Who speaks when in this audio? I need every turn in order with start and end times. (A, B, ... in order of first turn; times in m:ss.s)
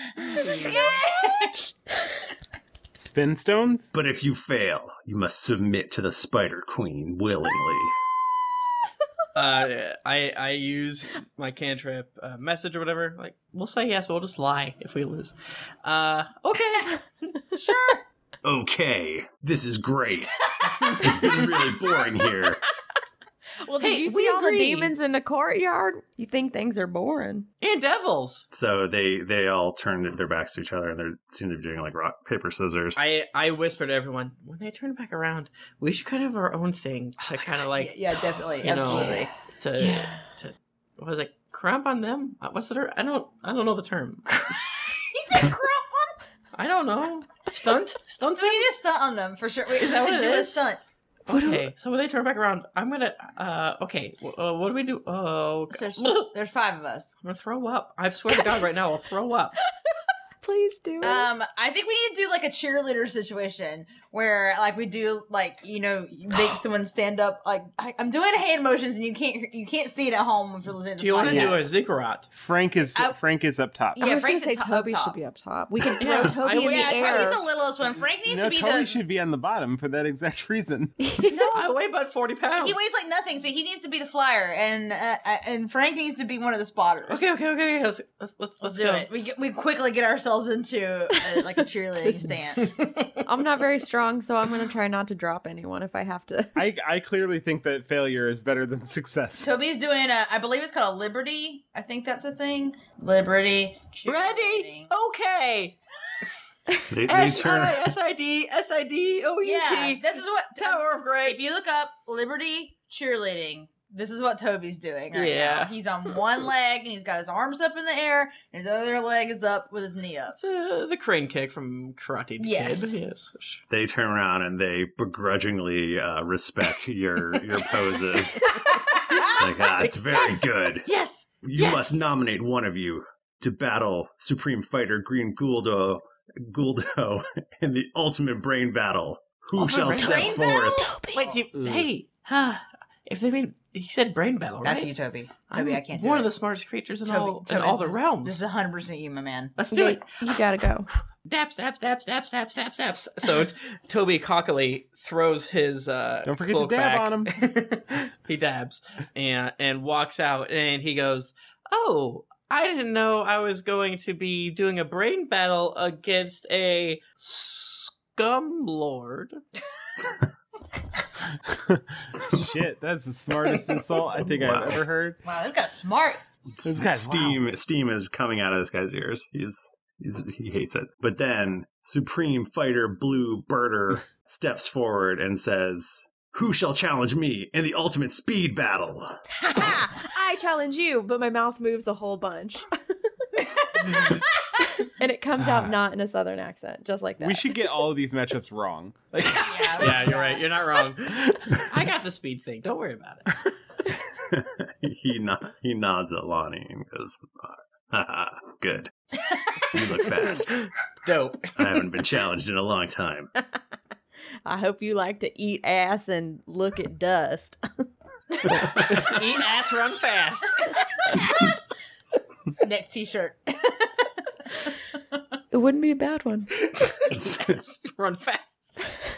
0:00.2-0:01.5 A
0:00.2-0:01.0 B
0:03.0-0:03.9 C
0:03.9-0:07.9 D
0:09.3-0:17.0 E
0:17.5-0:18.0 A
0:18.4-0:20.3 D
0:20.9-0:22.6 D
0:23.6-0:27.5 B
0:23.8-0:24.8 A
0:27.6-0:28.4 E
0:28.5-0:33.0 D
0:33.0-0:44.3 E
0:37.4-0:39.3 A
0:39.8-0:40.1 B
0:44.3-0:46.2 A
0:46.5-0:48.7 E
0:48.3-0:50.8 A
0:49.7-0:50.7 E
0:51.3-0:56.3 E
0:51.3-0:51.6 B
0:55.7-0:57.1 A
0:57.2-0:59.5 E
1:00.4-1:01.3 B
1:01.0-1:11.7 A
1:11.0-1:12.2 E
1:11.2-1:11.6 C
1:12.3-1:14.0 C
1:13.9-1:15.2 A
1:14.0-1:17.4 B
1:16.0-1:17.3 E
1:16.2-1:19.0 A
1:18.2-1:21.0 C
1:21.0-1:21.5 B
1:21.3-1:21.7 A
1:21.5-1:22.8 E
1:22.6-1:27.2 A
1:27.1-1:29.1 E
1:28.6-1:32.8 A
1:33.2-1:36.6 B
1:36.6-1:39.6 C
1:39.4-1:44.9 A
1:44.0-1:45.8 E
1:46.9-1:47.9 D
1:47.1-1:51.4 E
1:49.4-2:00.4 A
1:55.1-1:55.7 E
2:00.4-2:03.6 E
2:02.4-2:03.0 A
2:03.7-2:08.4 D
2:08.6-2:12.0 A
2:09.4-2:10.9 D
2:11.4-2:20.9 D
2:19.6-2:20.4 E
2:19.7-2:21.4 A
2:20.7-2:21.2 B
2:21.1-2:24.9 E
2:21.5-2:21.9 C
2:24.6-2:26.3 A
2:25.5-2:28.4 E
2:27.0-2:29.5 A
2:29.6-2:30.3 E
2:29.7-2:30.9 B
2:31.2-2:49.4 E
2:36.2-2:37.3 C
2:51.4-2:55.2 C
2:54.3-2:54.8 D
2:55.2-2:56.2 A
2:56.6-3:09.2 D
2:56.6-2:57.4 C
3:09.4-3:12.6 B
3:14.8-3:17.6 B
3:17.2-3:20.2 C
3:19.3-3:20.5 A
3:19.8-3:23.3 E
3:21.2-3:21.5 C
3:24.1-3:28.9 D
3:29.7-3:30.6 D
3:31.0-3:31.6 E
3:31.6-3:33.3 D
3:34.4-3:37.8 B
3:38.4-3:39.2 D
3:38.6-3:40.7 E
3:42.6-3:43.9 A
3:45.5-3:46.5 B
3:47.1-3:47.6 D
3:47.4-3:48.8 E